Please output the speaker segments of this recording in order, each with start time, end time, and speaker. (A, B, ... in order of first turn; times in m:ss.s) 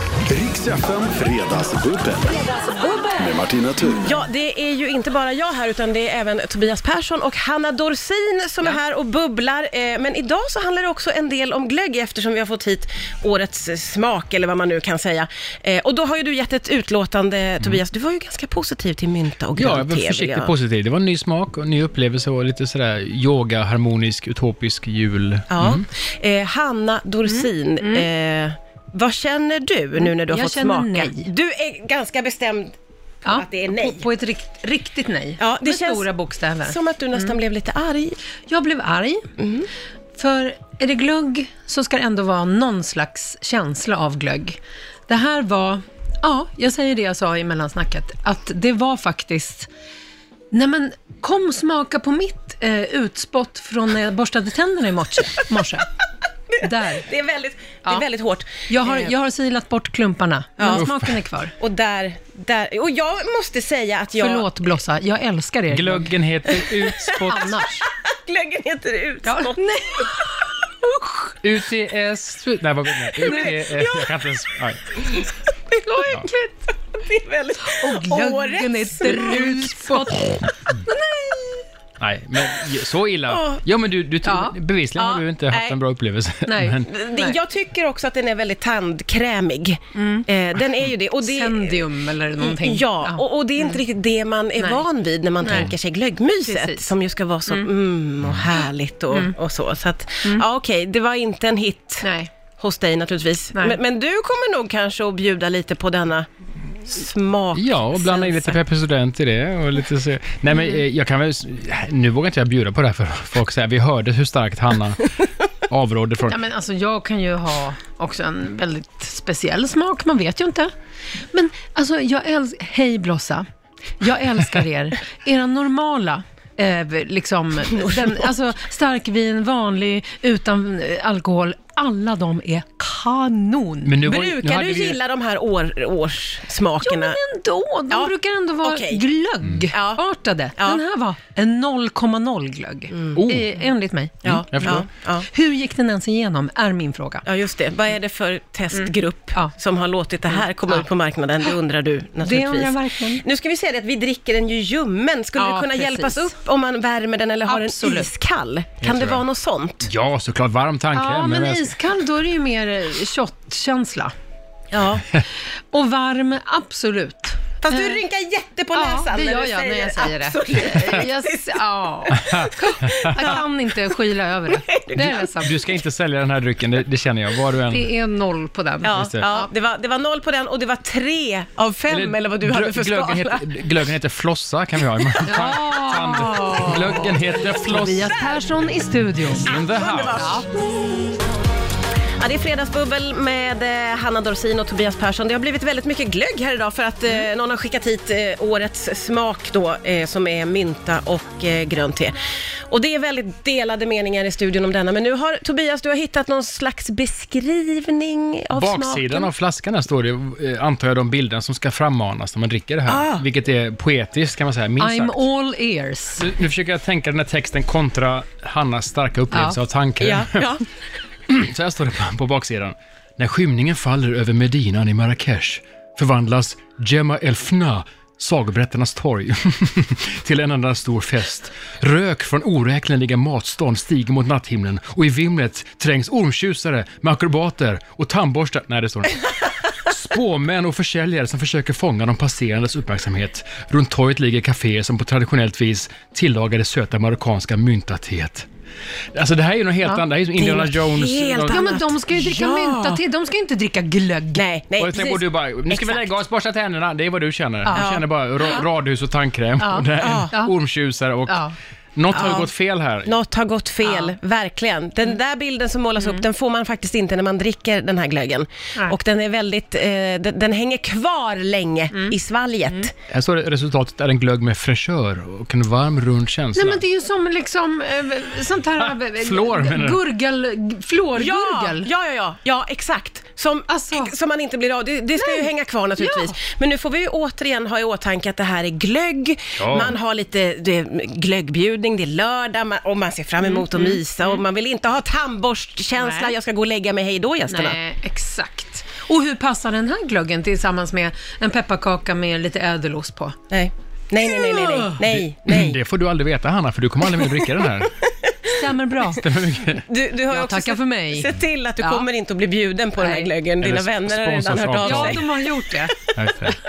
0:00.3-0:02.5 A
0:03.1-0:04.1 A
0:04.0-0:20.5 B
0:19.6-0:25.9 C
0:25.5-0:32.7 B
0:27.3-0:28.1 D
0:30.0-0:31.3 D
0:33.2-0:37.3 D
0:33.2-0:34.0 B
0:35.4-0:36.1 B
0:36.6-0:38.2 B
0:38.5-0:39.2 D
0:39.4-0:39.7 B
0:40.2-0:49.7 D
0:50.5-0:55.9 D
0:56.6-0:57.0 D
0:56.9-0:59.1 B
0:58.6-1:01.5 D
1:00.6-1:00.9 B
1:00.7-1:01.1 C
1:01.6-1:04.5 B
1:04.2-1:06.1 D
1:05.7-1:07.6 C
1:06.5-1:07.3 B
1:07.2-1:07.8 D
1:07.9-1:10.1 B
1:09.2-1:11.1 D
1:11.4-1:15.0 C
1:13.2-1:14.2 B
1:13.2-1:13.6 D
1:15.0-1:15.8 B
1:15.8-1:16.6 D
1:16.9-1:20.1 B
1:17.6-1:21.6 D
1:22.0-1:26.9 C
1:23.3-1:23.6 B
1:24.2-1:24.5 D
1:25.0-1:25.8 B
1:26.4-1:27.4 D
1:26.9-1:31.8 B
1:29.9-1:30.3 D
1:31.2-1:33.8 D
1:32.4-1:46.3 B
1:34.6-1:34.8 D
1:35.4-1:35.7 D
1:36.4-1:36.9 D
1:42.0-1:42.3 D
1:46.8-1:48.6 B
1:47.5-1:55.1 C
1:55.7-1:56.4 C
1:56.3-2:00.7 D
2:01.3-2:03.4 D
2:04.0-2:14.0 D
2:07.8-2:08.2 B
2:13.8-2:15.0 C
2:14.0-2:17.2 B
2:16.8-2:27.2 D
2:18.6-2:19.0 B
2:19.7-2:20.0 B
2:20.6-2:20.8 B
2:22.9-2:23.2 B
2:23.2-2:23.5 C
2:24.2-2:24.8 C
2:24.2-2:25.2 B
2:27.2-2:39.9 B
2:28.7-2:29.5 D
2:30.3-2:30.9 D
2:32.2-2:33.2 D
2:35.4-2:36.3 D
2:37.4-2:38.1 D
2:38.8-2:39.2 C
2:39.8-2:41.8 C
2:40.9-2:44.1 D
2:44.7-2:45.1 B
2:45.7-2:48.0 D
2:47.6-2:53.4 B
2:48.7-2:55.6 D
2:52.1-2:53.3 C
2:54.5-2:55.7 B
2:55.0-2:57.9 C
2:57.6-2:59.5 D
2:58.8-3:03.5 B
2:58.9-2:59.2 C
3:01.9-3:08.1 C
3:05.2-3:09.5 D
3:08.0-3:08.4 B
3:09.3-3:11.1 B
3:09.3-3:10.4 C
3:10.1-3:10.4 D
3:12.2-3:22.2 B
3:22.7-3:29.3 B
3:28.5-3:35.2 C
3:32.9-3:33.2 B
3:34.8-3:36.3 D
3:36.2-3:40.5 C
3:39.3-3:39.6 D
3:40.0-3:40.7 B
3:41.3-4:08.5 C
4:09.1-4:11.7 C
4:10.4-4:13.0 B
4:11.5-4:14.4 D
4:14.3-4:16.1 B
4:14.8-4:21.4 C
4:17.7-4:18.0 B
4:19.6-4:20.5 D
4:20.0-4:20.3 B
4:21.2-4:21.6 D
4:22.0-4:23.1 C
4:22.1-4:22.5 B
4:23.0-4:32.9 B
4:23.8-4:24.1 D
4:33.1-4:36.8 C
4:36.5-4:41.9 D
4:38.8-4:40.0 C
4:41.2-4:57.8 B
4:43.7-4:44.1 D
4:45.2-4:46.4 D
4:49.6-4:49.9 C
4:53.4-4:54.4 D
4:56.0-4:56.3 D
4:57.5-5:03.4 D
5:03.5-5:05.8 B
5:04.4-5:04.9 D
5:05.0-5:07.9 C
5:07.2-5:08.5 B
5:08.5-5:09.2 D
5:09.1-5:09.8 C
5:09.9-5:15.9 B
5:10.3-5:12.0 D
5:13.0-5:13.3 D
5:13.6-5:15.3 C
5:14.8-5:15.9 D
5:16.2-5:16.6 C